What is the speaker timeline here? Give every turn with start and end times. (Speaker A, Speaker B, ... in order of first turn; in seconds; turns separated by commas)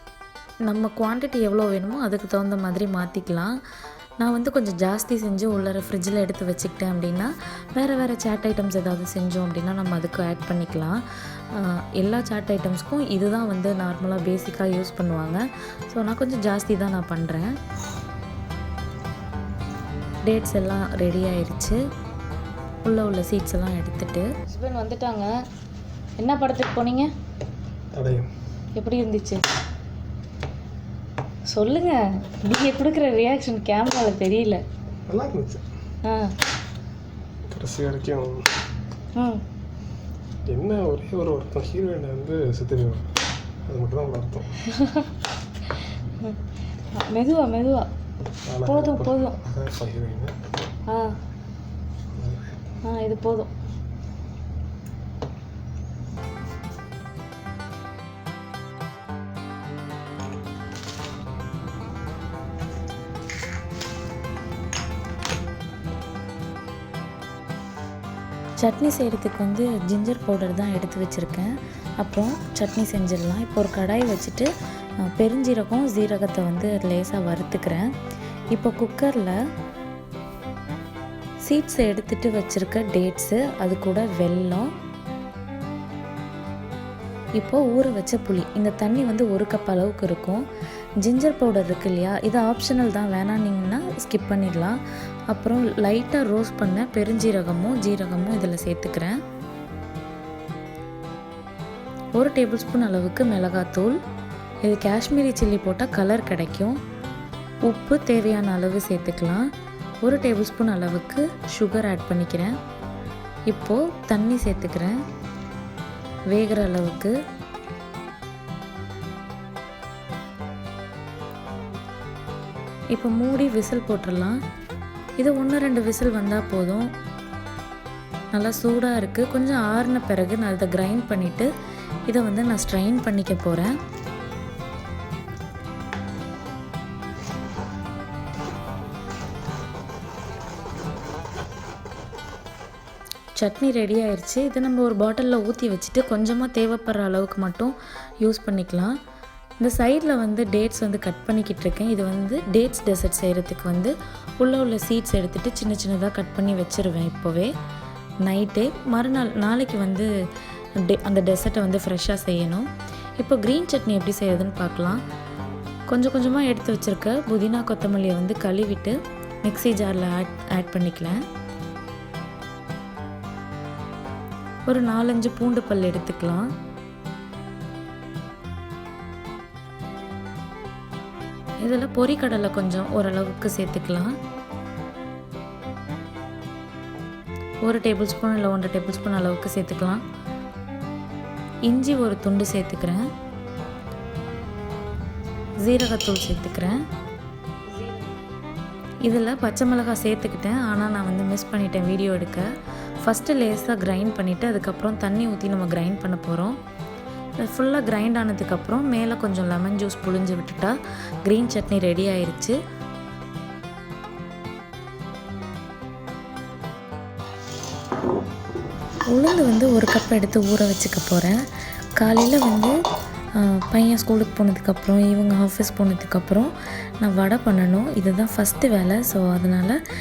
Speaker A: 0.6-3.5, Speaker A: 4.2-11.0, Speaker A: 11.5-17.5, Speaker A: 20.2-21.8, Speaker A: 22.8-24.3, Speaker B: 24.5-25.3, Speaker B: 26.2-27.1, Speaker C: 27.9-28.3, Speaker B: 28.8-29.4, Speaker B: 31.5-34.6, Speaker C: 35.1-35.6, Speaker B: 36.1-36.3, Speaker C: 37.5-38.5, Speaker C: 40.5-43.1, Speaker C: 43.6-44.5, Speaker B: 44.7-45.1, Speaker B: 46.9-47.9, Speaker C: 48.5-50.3, Speaker B: 48.6-49.4, Speaker C: 52.1-52.5, Speaker B: 52.9-53.5, Speaker A: 68.6-74.5, Speaker A: 75.0-77.8, Speaker A: 78.5-79.4, Speaker A: 81.4-84.7, Speaker A: 87.4-90.4, Speaker A: 91.0-94.8, Speaker A: 95.3-99.1, Speaker A: 102.2-103.9, Speaker A: 104.6-106.8, Speaker A: 107.6-109.4, Speaker A: 110.0-112.5, Speaker A: 113.5-114.9, Speaker A: 116.3-117.1, Speaker A: 122.9-124.4, Speaker A: 125.2-126.9, Speaker A: 128.3-131.5, Speaker A: 132.1-133.7, Speaker A: 143.4-148.9, Speaker A: 149.6-157.5, Speaker A: 158.2-160.1, Speaker A: 160.9-162.7, Speaker A: 163.2-165.0, Speaker A: 165.9-171.2, Speaker A: 174.7-176.4, Speaker A: 181.6-184.1, Speaker A: 187.6-190.0, Speaker A: 191.7-193.0, Speaker A: 195.6-196.8, Speaker B: 197.7-198.2, Speaker A: 199.0-202.5, Speaker A: 203.0-206.6, Speaker A: 207.4-210.7, Speaker A: 211.2-212.6, Speaker A: 219.1-221.4, Speaker A: 222.0-222.7, Speaker A: 223.4-229.8